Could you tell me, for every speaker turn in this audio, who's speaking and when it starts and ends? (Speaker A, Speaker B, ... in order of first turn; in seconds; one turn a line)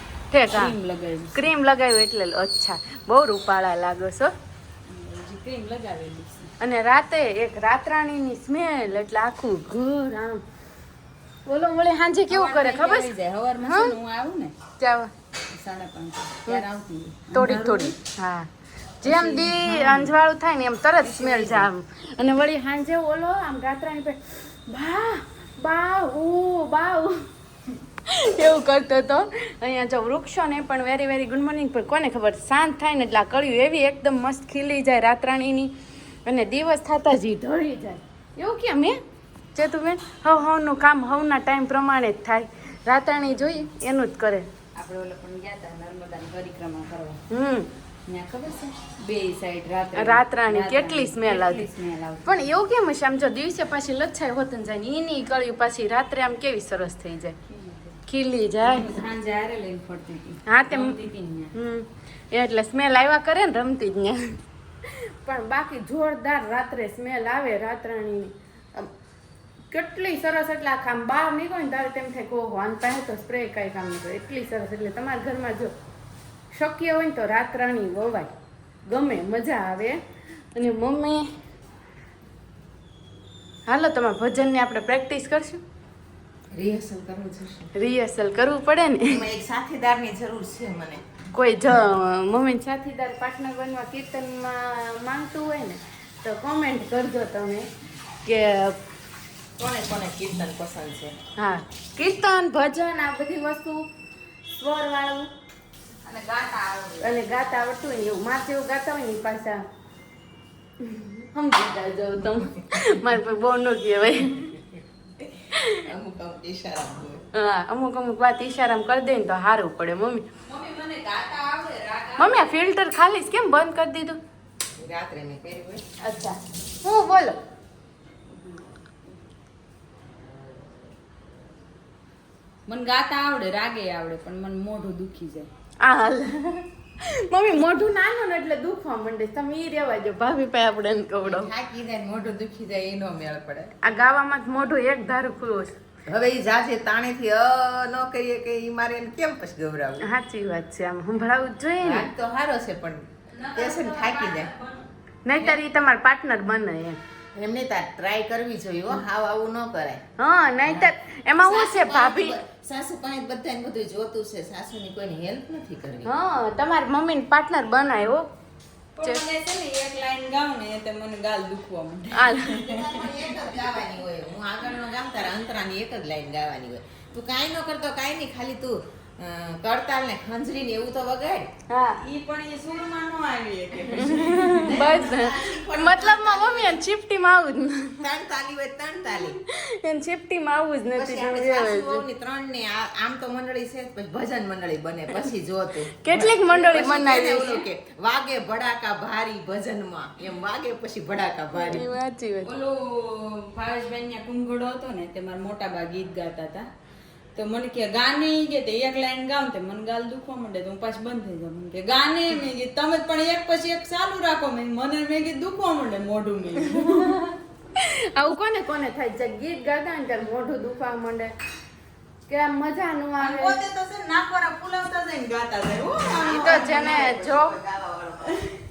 Speaker A: 0.3-0.8
Speaker B: 0.5-1.5
Speaker A: 1.3-4.3
Speaker B: 4.9-6.5
Speaker A: 6.6-10.4
Speaker A: 11.4-14.0
Speaker B: 12.3-14.5
Speaker A: 14.8-15.1
Speaker B: 15.5-17.9
Speaker A: 17.3-18.5
Speaker A: 19.0-27.2
Speaker B: 19.0-20.1
Speaker B: 21.0-21.7
Speaker A: 28.1-35.7
Speaker A: 36.2-39.0
Speaker A: 39.5-44.5
Speaker B: 43.3-43.6
Speaker B: 44.7-47.2
Speaker A: 47.3-47.7
Speaker B: 48.0-52.4
Speaker A: 49.9-51.6
Speaker A: 52.2-57.4
Speaker B: 57.5-58.0
Speaker A: 58.1-58.9
Speaker B: 58.6-61.5
Speaker A: 60.5-61.0
Speaker A: 61.5-68.9
Speaker A: 69.7-75.7
Speaker A: 76.5-78.3
Speaker A: 78.8-80.0
Speaker A: 80.5-81.2
Speaker A: 83.7-85.6
Speaker C: 86.5-87.7
Speaker A: 87.7-89.3
Speaker C: 89.1-91.0
Speaker A: 91.3-97.7
Speaker A: 98.2-98.8
Speaker C: 99.6-101.2
Speaker A: 101.4-103.8
Speaker A: 104.6-105.3
Speaker B: 106.0-107.1
Speaker A: 107.0-109.6
Speaker A: 110.8-114.5
Speaker C: 115.2-117.2
Speaker A: 117.3-120.2
Speaker B: 120.5-122.6
Speaker A: 122.2-124.2
Speaker C: 124.8-125.8
Speaker A: 126.0-127.4
Speaker B: 128.3-128.6
Speaker B: 132.7-135.5
Speaker A: 135.8-141.5
Speaker C: 141.2-143.7
Speaker A: 143.8-145.8
Speaker C: 146.1-150.1
Speaker A: 150.0-152.1
Speaker C: 151.8-154.5
Speaker B: 153.3-154.8
Speaker A: 155.2-157.0
Speaker C: 157.3-160.0
Speaker A: 160.2-162.4
Speaker C: 160.7-166.1
Speaker A: 166.0-168.3
Speaker B: 168.9-173.3
Speaker A: 172.1-172.6
Speaker C: 172.5-181.5
Speaker A: 181.7-182.0
Speaker B: 182.0-184.8
Speaker A: 183.9-188.1
Speaker C: 184.4-186.8
Speaker C: 188.0-189.4
Speaker A: 189.3-192.0
Speaker C: 190.9-201.9
Speaker A: 196.0-197.7
Speaker A: 201.6-202.5
Speaker B: 202.4-206.7
Speaker B: 207.3-217.4
Speaker A: 217.8-221.3
Speaker A: 222.3-223.6
Speaker B: 223.2-226.5
Speaker C: 226.0-228.4
Speaker A: 226.3-227.6